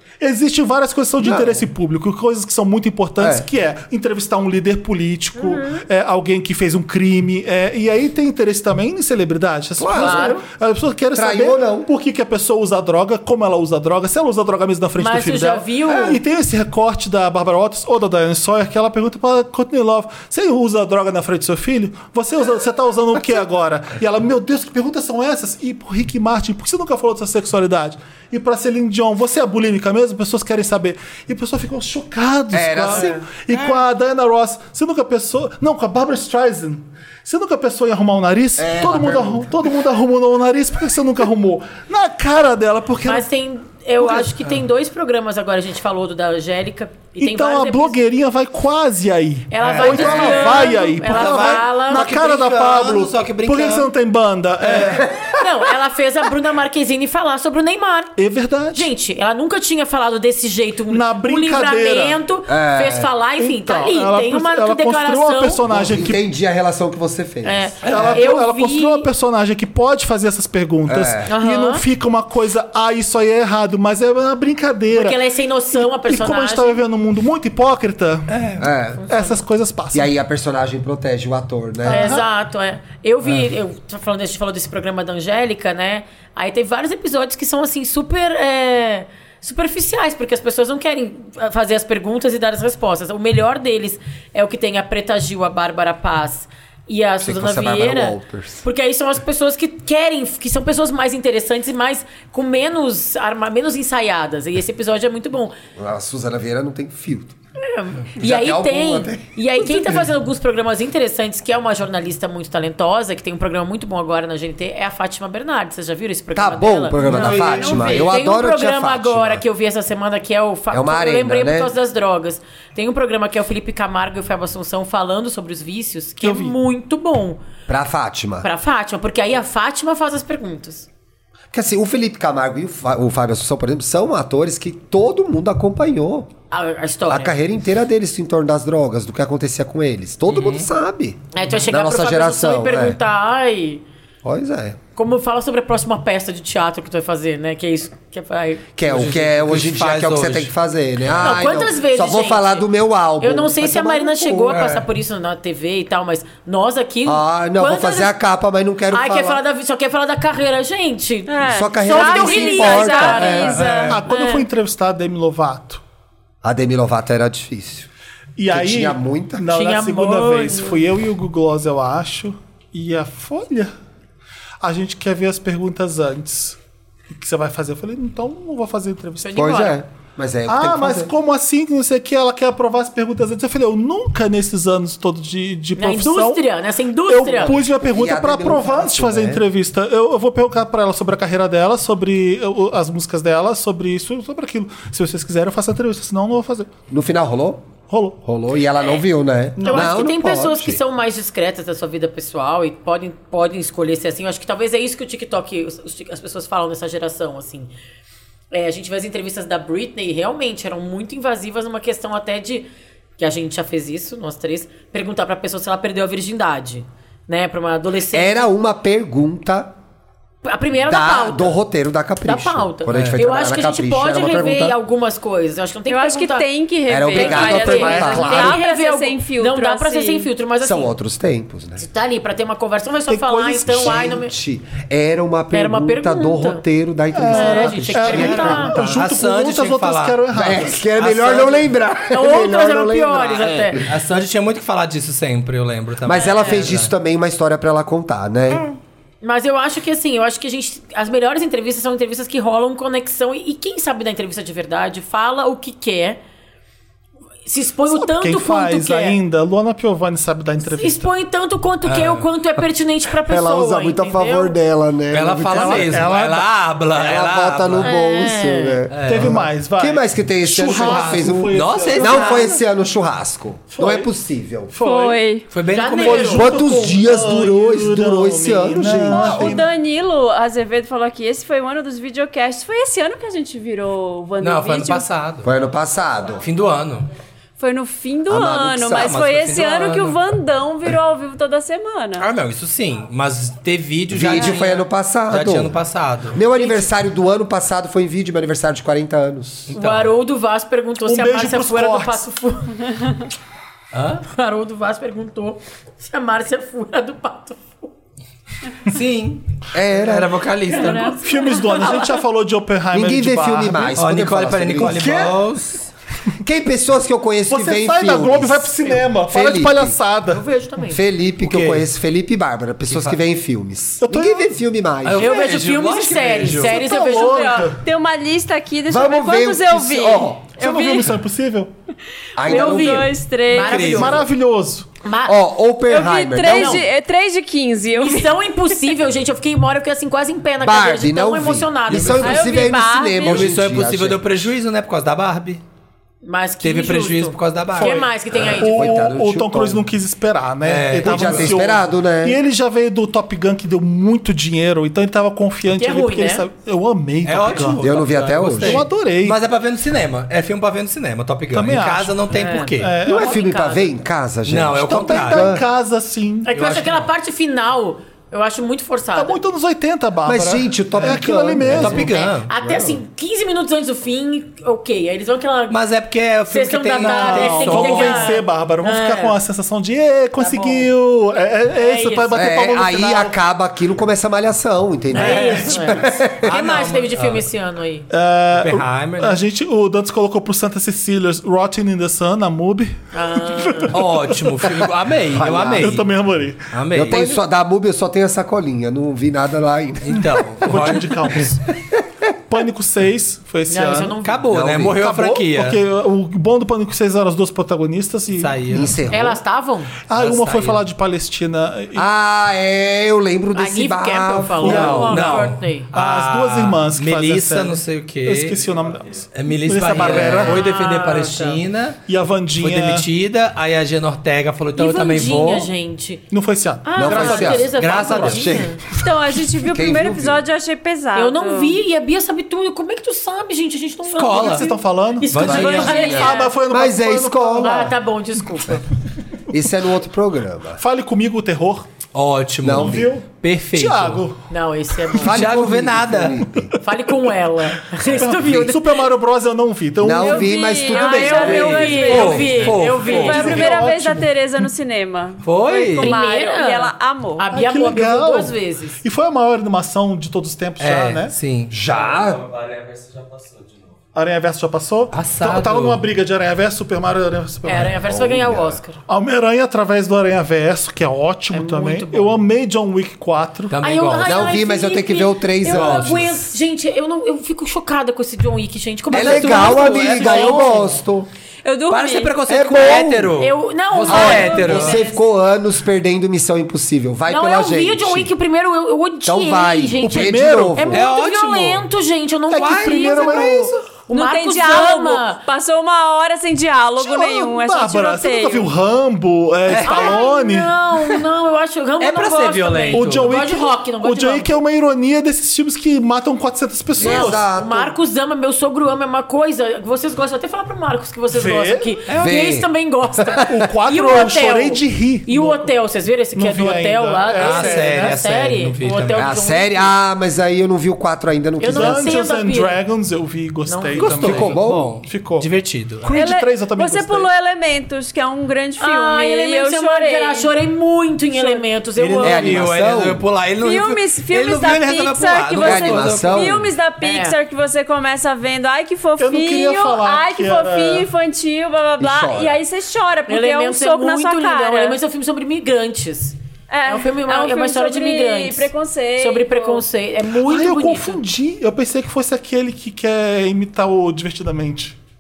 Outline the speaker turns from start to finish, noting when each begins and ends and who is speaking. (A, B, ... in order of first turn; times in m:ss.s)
0:00.2-0:43.3 A
0:01.2-0:01.6 B
0:03.2-0:03.4 B
0:05.4-0:05.8 C
0:09.8-0:10.3 B
0:09.9-0:10.4 C
0:11.1-0:11.9 B
0:15.0-0:16.2 C
0:32.5-0:33.2 B
0:38.6-0:39.5 B
0:43.0-0:48.0 C
0:44.0-0:44.3 A
0:47.2-0:55.1 A
0:49.5-0:52.2 C
0:49.6-0:53.9 D
0:50.0-0:50.4 B
0:54.6-0:55.0 D
0:54.9-0:55.4 B
0:55.3-0:58.1 C
0:58.2-0:58.9 A
0:58.7-1:05.6 C
1:00.9-1:02.2 A
1:02.5-1:03.1 B
1:03.4-1:06.2 A
1:05.7-1:08.0 B
1:07.4-1:09.1 C
1:07.8-1:15.2 A
1:07.9-1:08.2 D
1:10.9-1:11.3 B
1:11.3-1:11.8 C
1:14.9-1:16.8 C
1:15.7-1:18.4 A
1:18.3-1:18.6 D
1:18.6-1:19.0 B
1:19.0-1:19.4 C
1:19.1-1:20.1 A
1:19.9-1:22.1 B
1:21.8-1:22.2 A
1:21.9-1:45.6 C
1:37.2-1:38.6 B
1:45.8-1:47.4 B
1:47.6-2:07.4 C
1:48.2-1:50.0 B
1:56.3-1:59.4 B
1:57.1-1:58.0 D
1:57.1-1:58.1 E
1:57.3-1:57.6 A
2:00.7-2:01.7 B
2:06.2-2:06.6 A
2:07.7-2:08.5 B
2:08.4-2:10.9 C
2:11.5-2:16.3 B
2:16.5-2:17.4 C
2:17.1-2:23.0 B
2:20.3-2:20.7 D
2:21.3-2:23.8 C
2:24.2-2:24.8 B
2:25.0-2:28.7 C
2:28.8-2:34.6 B
2:28.9-2:30.5 D
2:31.1-2:32.6 C
2:33.2-2:38.1 C
2:34.5-2:34.8 D
2:37.0-2:39.4 B
2:38.9-2:44.4 C
2:41.3-2:44.0 E
2:41.4-2:43.7 B
2:43.5-2:44.0 D
2:43.9-2:45.8 A
2:46.4-2:47.9 B
2:48.4-2:53.7 A
2:48.5-2:49.5 B
2:49.5-2:50.8 C
2:54.6-2:56.6 A
2:57.1-2:59.4 A
2:59.2-2:59.8 C
2:59.4-3:01.1 B
3:00.5-3:06.4 A
3:05.8-3:07.6 C
3:07.1-3:16.7 A
3:07.6-3:09.4 B
3:16.9-3:17.7 B
3:17.9-3:18.2 A
3:18.2-3:20.8 B
3:19.6-3:20.0 A
3:19.6-3:27.7 C
3:28.5-3:38.5 C
3:38.1-3:39.7 B
3:40.4-3:41.6 C
3:40.9-3:44.8 B
3:42.2-3:46.5 C
3:42.9-3:43.2 D
3:45.9-3:50.3 E
3:46.9-3:48.6 B
3:47.1-3:50.9 C
3:47.5-3:48.6 A
3:50.6-3:51.8 B
3:51.8-3:54.3 C
3:53.1-3:54.1 A
3:53.7-3:59.0 B
3:55.5-3:56.6 C
3:57.1-4:00.8 A
3:57.2-3:58.7 C
3:58.1-4:00.2 D
4:00.3-4:03.8 B
4:01.0-4:01.6 D
4:02.1-4:03.8 C
4:03.8-4:06.9 D
4:06.0-4:08.6 B
4:06.2-4:06.6 C
4:09.2-4:16.2 C
4:17.4-4:19.2 C
4:17.9-4:21.1 A
4:20.6-4:24.6 C
4:21.8-4:22.3 D
4:23.2-4:26.1 B
4:25.1-4:27.9 D
4:25.5-4:26.5 A
4:26.9-4:34.7 B
4:27.8-4:28.8 C
4:28.9-4:29.4 D
4:29.0-4:32.6 A
4:30.7-4:32.6 D
4:33.7-4:34.1 A
4:34.7-4:35.2 A
4:34.8-4:35.4 E
4:35.5-4:36.5 D
4:35.7-4:36.5 C
4:35.9-4:39.6 A
4:36.3-4:39.6 B
4:39.0-4:45.1 E
4:44.4-4:45.5 D
4:45.4-4:46.5 B
4:46.4-4:47.1 D
4:47.6-4:52.2 E
4:48.3-4:49.2 B
4:48.9-4:50.2 D
4:52.2-4:56.4 D
4:54.1-4:55.8 B
4:56.3-4:59.7 B
4:56.5-4:56.9 C
4:59.7-5:00.1 D
4:59.7-5:03.0 C
5:01.0-5:02.3 A
5:03.9-5:04.2 D
5:04.2-5:07.9 C
5:08.8-5:11.1 D
5:09.7-5:10.3 B
5:10.7-5:12.1 C
5:10.7-5:12.0 E
5:11.1-5:14.0 A
5:12.9-5:15.4 B
5:14.0-5:15.9 D
5:16.4-5:20.0 B
5:17.5-5:20.4 A
5:20.3-5:21.0 C
5:20.9-5:25.3 B
5:21.4-5:21.9 D
5:22.9-5:23.2 D
5:24.0-5:24.5 A
5:25.0-5:26.8 D
5:25.2-5:27.6 C
5:26.5-5:27.8 A
5:26.9-5:31.1 E
5:28.9-5:30.6 B
5:30.5-5:31.7 A
5:32.4-5:33.2 B
5:32.4-5:34.0 E
5:32.4-5:34.2 C
5:33.5-5:34.2 D
5:33.8-5:34.9 A
5:35.0-5:35.4 C
5:35.2-5:36.8 B
5:35.9-5:38.4 E
5:36.4-5:36.8 C
5:37.9-5:42.7 C
5:40.6-5:44.2 B
5:42.2-5:43.5 E
5:43.2-5:45.6 D
5:46.2-5:49.0 C
5:46.6-5:48.1 D
5:48.5-5:57.8 A
5:48.6-5:49.9 B
5:50.6-5:51.6 D
5:51.0-5:52.4 B
5:55.8-5:56.5 C
5:57.2-6:02.9 D
5:57.8-5:58.8 B
5:58.6-5:59.4 A
6:01.5-6:02.2 A
6:02.3-6:03.9 C
6:02.8-6:03.3 A
6:03.0-6:05.6 B
6:04.4-6:05.6 D
6:04.9-6:06.6 A
6:06.4-6:09.4 C
6:06.5-6:07.1 D
6:09.1-6:12.1 A
6:10.2-6:13.0 B
6:11.0-6:12.5 D
6:11.8-6:15.8 C
6:15.7-6:18.4 D
6:16.5-6:19.4 C
6:17.0-6:23.3 A
6:20.4-6:20.9 C
6:21.7-6:22.3 C
6:22.3-6:26.6 B
6:25.1-6:28.1 C
6:25.1-6:27.4 D
6:28.1-6:34.4 A
6:28.5-6:29.4 D
6:33.1-6:34.0 C
6:33.9-6:36.1 D
6:35.3-6:36.0 B
6:35.8-6:37.2 A
6:36.7-6:37.2 D
6:36.9-6:40.4 B
6:40.0-6:41.5 D
6:40.6-6:41.6 A
6:42.5-6:44.2 A
6:43.7-6:44.4 C
6:44.2-6:45.8 D
6:44.5-6:45.0 B
6:45.0-6:48.9 A
6:48.3-6:49.0 D
6:48.7-6:49.4 B
6:49.1-6:49.9 C
6:50.1-6:52.1 A
6:50.1-6:50.9 D
6:51.9-6:55.1 B
6:53.5-6:55.9 C
6:54.6-7:00.7 A
6:54.6-6:58.6 D
6:58.7-6:59.2 F
6:59.3-7:02.0 D
7:00.0-7:01.6 C
7:02.1-7:03.1 A
7:02.6-7:05.7 D
7:04.8-7:06.2 C
7:06.3-7:08.1 A
7:06.8-7:08.8 C
7:07.0-7:08.8 B
7:07.7-7:08.5 D
7:08.9-7:11.7 E
7:09.6-7:10.4 B
7:11.1-7:16.5 C
7:14.1-7:14.7 D
7:14.4-7:18.0 A
7:15.3-7:16.1 D
7:15.4-7:16.5 E
7:16.1-7:17.8 B
7:17.6-7:18.8 C
7:19.5-7:20.8 B
7:20.8-7:21.9 A
7:22.1-7:24.2 D
7:22.6-7:23.1 B
7:22.7-7:24.4 A
7:24.5-7:25.4 C
7:25.2-7:26.7 B
7:25.2-7:26.4 D
7:26.8-7:29.0 C
7:27.9-7:30.5 A
7:30.0-7:32.2 B
7:30.2-7:37.5 E
7:30.8-7:33.7 C
7:31.4-7:33.7 D
7:32.9-7:34.7 A
7:35.4-7:36.2 D
7:36.0-7:39.0 C
7:37.5-7:41.3 A
7:40.8-7:41.7 D
7:41.7-7:42.4 B
7:41.7-7:44.0 F
7:44.1-7:48.0 A
7:45.1-7:46.0 D
7:47.6-7:49.0 C
7:48.0-7:48.8 B
7:49.1-7:53.8 A
7:51.5-7:52.4 C
7:53.7-7:54.3 D
7:53.8-8:01.0 C
7:54.2-7:56.4 B
7:55.6-7:56.3 D
7:59.1-8:00.8 D
7:59.1-8:01.3 B
8:01.6-8:02.4 E
8:01.9-8:05.0 D
8:02.5-8:03.4 B
8:03.4-8:05.1 C
8:04.1-8:05.2 E
8:04.1-8:08.3 B
8:07.3-8:15.4 C
8:09.2-8:11.0 B
8:10.0-8:11.0 A
8:10.9-8:11.9 D
8:12.5-8:13.8 A
8:12.5-8:13.7 D
8:14.1-8:18.7 E
8:17.0-8:20.7 A
8:19.7-8:20.2 D
8:19.8-8:24.5 C
8:22.0-8:23.4 D
8:22.9-8:27.4 A
8:27.0-8:28.0 B
8:27.0-8:39.9 C
8:31.3-8:32.0 A
8:32.1-8:32.4 D
8:32.1-8:32.7 B
8:33.2-8:33.6 B
8:33.5-8:35.7 A
8:36.3-8:38.2 A
8:37.3-8:39.3 D
8:39.2-8:42.1 B
8:41.6-8:42.7 C
8:41.6-8:45.5 A
8:43.7-8:44.2 C
8:44.0-8:46.1 D
8:44.2-8:44.9 B
8:46.0-8:47.3 A
8:46.1-8:50.5 E
8:48.8-8:52.7 C
8:51.3-8:51.6 E
8:52.0-8:56.7 D
8:52.2-8:53.2 B
8:53.6-9:05.0 E
8:55.6-8:56.7 B
8:57.0-8:57.4 C
8:59.2-9:01.1 A
9:02.0-9:02.6 B
9:03.3-9:11.2 C
9:06.7-9:09.8 E
9:10.4-9:15.0 A